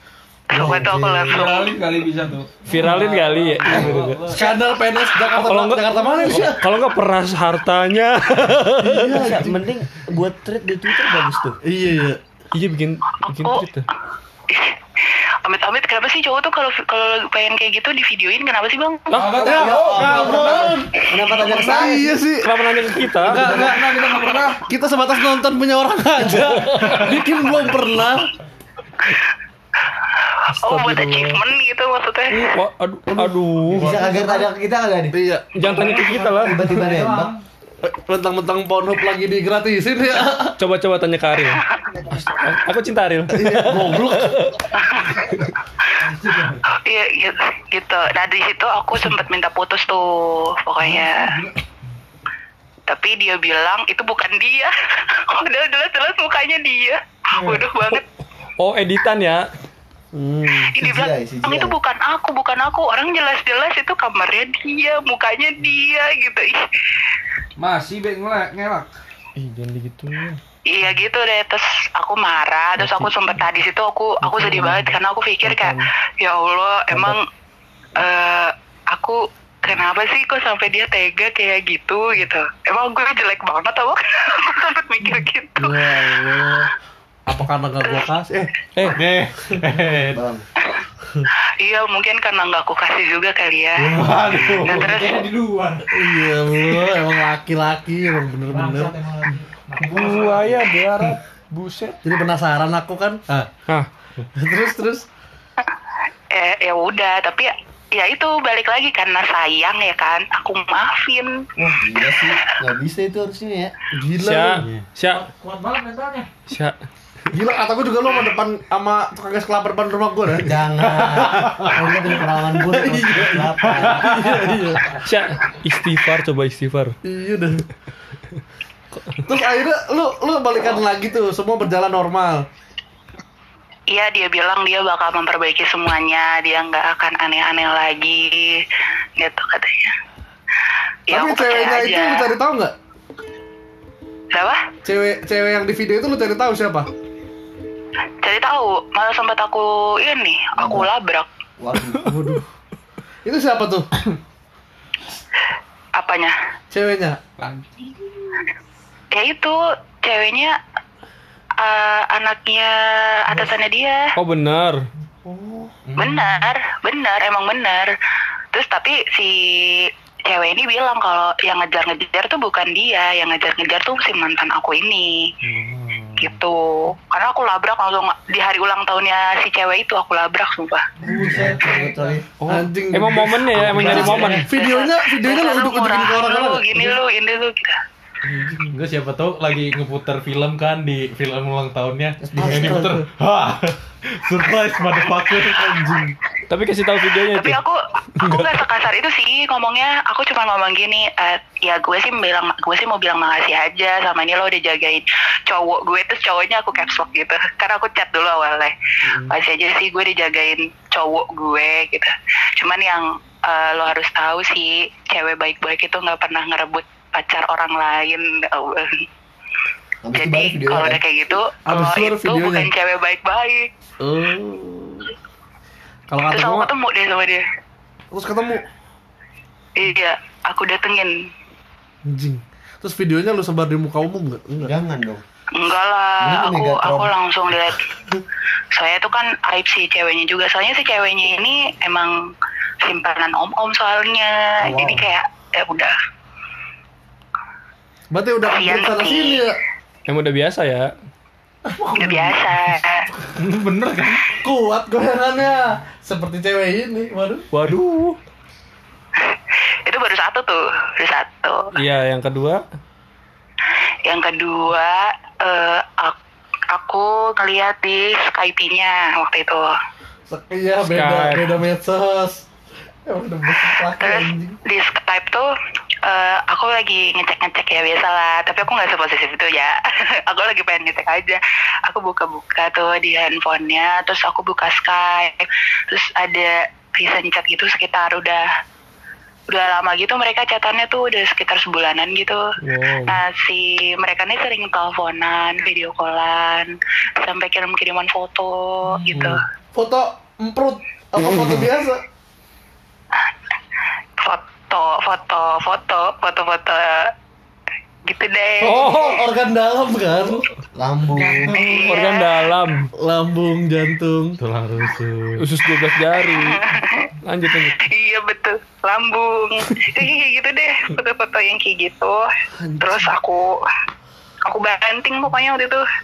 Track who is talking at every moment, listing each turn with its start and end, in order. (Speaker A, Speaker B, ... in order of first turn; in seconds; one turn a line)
Speaker A: 0.5-1.8
Speaker B: 0.5-1.5
Speaker C: 0.5-0.9
Speaker D: 1.3-4.5
Speaker E: 2.7-4.3
Speaker C: 3.8-6.6
Speaker E: 5.4-9.1
Speaker C: 8.8-9.6
Speaker B: 9.1-11.6
Speaker C: 11.7-12.2
Speaker E: 12.5-13.9
Speaker A: 13.3-13.6
Speaker A: 14.5-14.8
Speaker A: 15.4-19.1
Speaker E: 19.1-19.4
Speaker D: 19.2-20.4
Speaker C: 19.4-22.5
Speaker B: 19.5-22.1
Speaker E: 22.4-23.5
Speaker C: 23.2-28.3
Speaker D: 23.4-24.6
Speaker B: 23.4-23.8
Speaker F: 26.8-27.1
Speaker C: 30.5-31.4
Speaker A: 30.6-32.5
Speaker E: 32.3-34.1
Speaker F: 33.7-34.1
Speaker B: 33.8-35.1
Speaker C: 35.1-36.1
Speaker E: 35.6-36.6
Speaker G: 35.6-37.4
Speaker B: 36.4-37.3
Speaker C: 37.8-40.5
Speaker E: 40.6-44.6
Speaker C: 43.3-44.4
Speaker E: 45.2-45.5
Speaker G: 46.0-46.6
Speaker A: 46.8-51.3
Speaker C: 50.9-51.5
Speaker A: 52.9-58.0
Speaker E: 58.6-59.4
Speaker B: 60.1-61.8
Speaker A: 60.7-67.1
Speaker D: 67.6-68.9
Speaker E: 69.4-70.4
Speaker A: 70.7-77.2
Speaker E: 72.8-73.1
Speaker E: 74.2-75.8
Speaker A: 78.0-86.2
Speaker C: 85.6-86.7
Speaker C: 87.3-89.6
Speaker F: 88.9-90.2
Speaker B: 90.1-90.5
Speaker A: 91.6-93.9
Speaker F: 93.8-95.3
Speaker G: 94.1-95.8
Speaker A: 94.6-95.3
Speaker C: 95.9-99.0
Speaker G: 98.5-100.8
Speaker E: 99.8-102.0
Speaker C: 102.0-103.2
Speaker C: 104.4-105.0
Speaker A: 106.3-111.3
Speaker B: 111.6-113.7
Speaker C: 113.9-114.6
Speaker E: 114.2-115.2
Speaker F: 114.6-114.9
Speaker G: 115.1-116.3
Speaker E: 116.5-116.8
Speaker C: 117.3-120.6
Speaker B: 120.5-124.2
Speaker F: 120.8-121.8
Speaker C: 121.8-125.0
Speaker F: 123.3-124.3
Speaker E: 125.0-127.0
Speaker C: 127.0-127.7
Speaker C: 129.2-132.5
Speaker A: 133.9-138.6
Speaker A: 139.2-140.0
Speaker A: 141.1-142.3
Speaker C: 141.1-142.7
Speaker A: 144.3-144.7
Speaker C: 144.8-146.9
Speaker A: 148.2-151.3
Speaker B: 150.6-150.9
Speaker B: 151.6-152.2
Speaker E: 152.0-152.4
Speaker C: 152.1-152.4
Speaker C: 153.2-153.9
Speaker A: 156.0-156.3
Speaker C: 156.7-157.6
Speaker A: 159.1-160.6
Speaker A: 161.6-164.1
Speaker E: 164.2-164.8
Speaker C: 165.2-165.7
Speaker F: 165.8-166.5
Speaker A: 166.0-167.9
Speaker A: 168.5-175.2
Speaker F: 175.4-176.4
Speaker A: 176.2-180.8
Speaker G: 181.1-182.1
Speaker B: 181.2-182.2
Speaker C: 181.2-181.5
Speaker E: 182.4-184.4
Speaker C: 182.5-187.0
Speaker A: 184.0-187.8
Speaker C: 188.3-188.6
Speaker F: 188.7-196.1
Speaker B: 192.2-193.0
Speaker C: 192.4-192.9
Speaker E: 196.5-197.6
Speaker A: 197.3-208.7
Speaker E: 198.2-198.6
Speaker B: 209.1-209.3
Speaker A: 209.3-219.1
Speaker B: 220.0-221.0
Speaker A: 220.1-223.7
Speaker C: 221.7-222.7
Speaker C: 224.0-225.1
Speaker C: 226.1-226.7
Speaker A: 226.3-227.5
Speaker C: 228.1-228.6
Speaker A: 229.8-231.2
Speaker C: 232.1-234.7
Speaker B: 234.5-235.2
Speaker A: 235.5-237.9
Speaker B: 236.2-237.1
Speaker A: 238.7-242.2
Speaker A: 242.8-245.9
Speaker B: 244.6-245.1
Speaker C: 248.1-249.6
Speaker A: 248.4-249.4
Speaker E: 250.1-250.9
Speaker C: 251.7-253.3
Speaker A: 252.0-253.1
Speaker F: 253.4-254.4
Speaker C: 254.4-257.5
Speaker E: 257.5-258.2
Speaker A: 259.2-261.7
Speaker E: 261.8-262.6
Speaker A: 264.1-266.2
Speaker A: 266.7-269.7
Speaker C: 270.3-272.5
Speaker E: 270.8-271.5
Speaker C: 273.1-274.6
Speaker A: 274.0-275.5
Speaker A: 276.1-288.4
Speaker A: 289.5-292.4
Speaker E: 292.6-293.2
Speaker A: 293.1-299.4
Speaker E: 299.1-299.4
Speaker C: 299.7-302.0
Speaker A: 304.2-307.1
Speaker A: 308.1-309.0
Speaker C: 308.6-310.5
Speaker E: 308.6-309.2
Speaker B: 310.8-311.6
Speaker C: 311.5-311.9
Speaker A: 311.5-312.3
Speaker E: 311.8-312.9
Speaker C: 313.0-314.4
Speaker F: 314.4-315.4
Speaker E: 315.4-316.6
Speaker A: 316.2-317.1
Speaker E: 317.2-317.8
Speaker A: 317.8-322.3
Speaker C: 322.6-323.1
Speaker A: 322.8-323.6
Speaker A: 324.4-325.8